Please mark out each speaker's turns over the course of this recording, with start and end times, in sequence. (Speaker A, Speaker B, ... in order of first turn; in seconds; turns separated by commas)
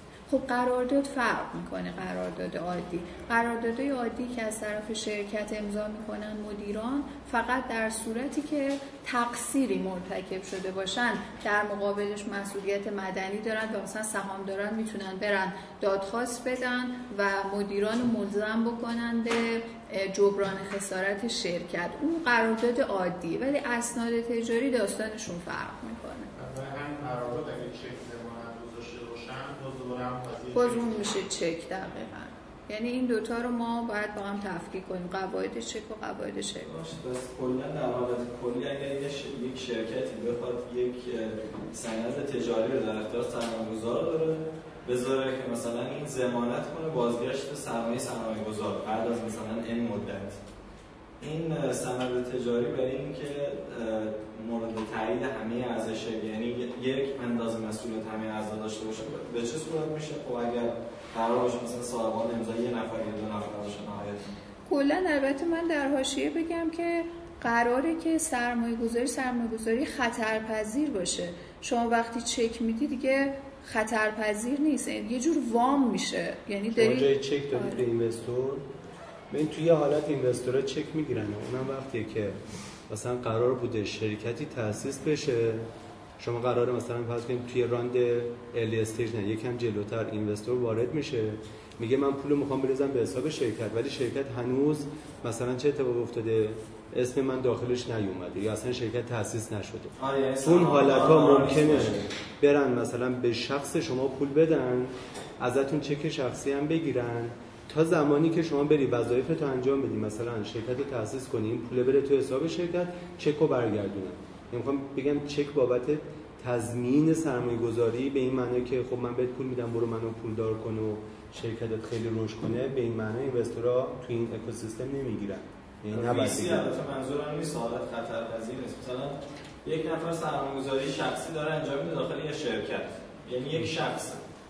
Speaker A: 0.3-26.3, Speaker B: 26.4-31.0, Speaker A: 30.5-36.7, Speaker C: 36.6-50.4, Speaker C: 51.2-64.3, Speaker A: 64.7-77.8, Speaker D: 76.7-78.6, Speaker D: 79.3-85.7, Speaker D: 86.2-126.7, Speaker C: 100.0-102.0, Speaker C: 125.9-134.2